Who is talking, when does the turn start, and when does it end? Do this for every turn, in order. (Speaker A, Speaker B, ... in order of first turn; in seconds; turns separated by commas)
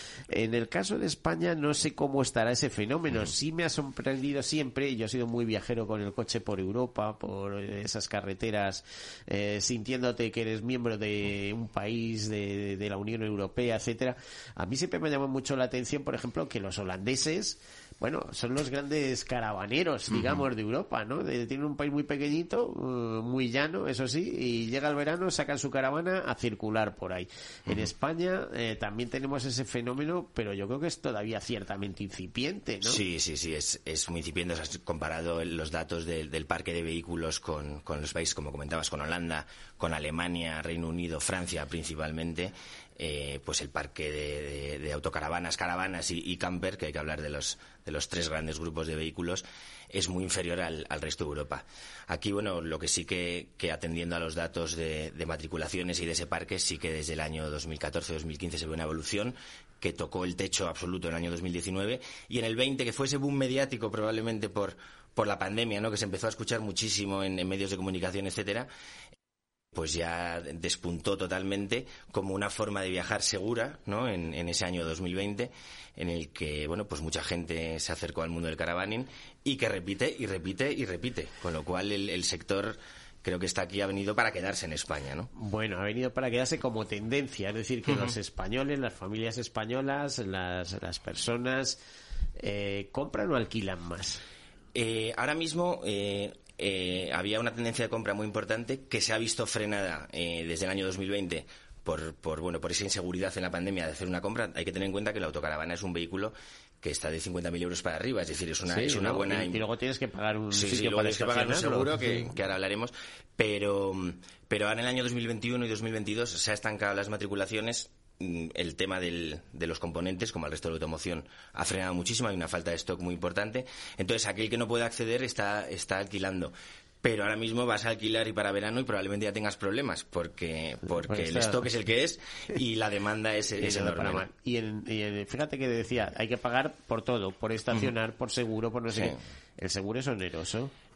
Speaker A: 0.3-33.0, Speaker B: 20.1-20.4, Speaker B: 32.8-68.7, Speaker B: 69.7-85.3, Speaker A: 85.3-91.8, Speaker B: 87.9-88.1, Speaker A: 92.4-94.2, Speaker B: 94.7-109.6, Speaker A: 108.6-112.3, Speaker B: 110.5-134.3, Speaker A: 131.0-131.6, Speaker A: 133.6-140.7, Speaker B: 138.9-139.2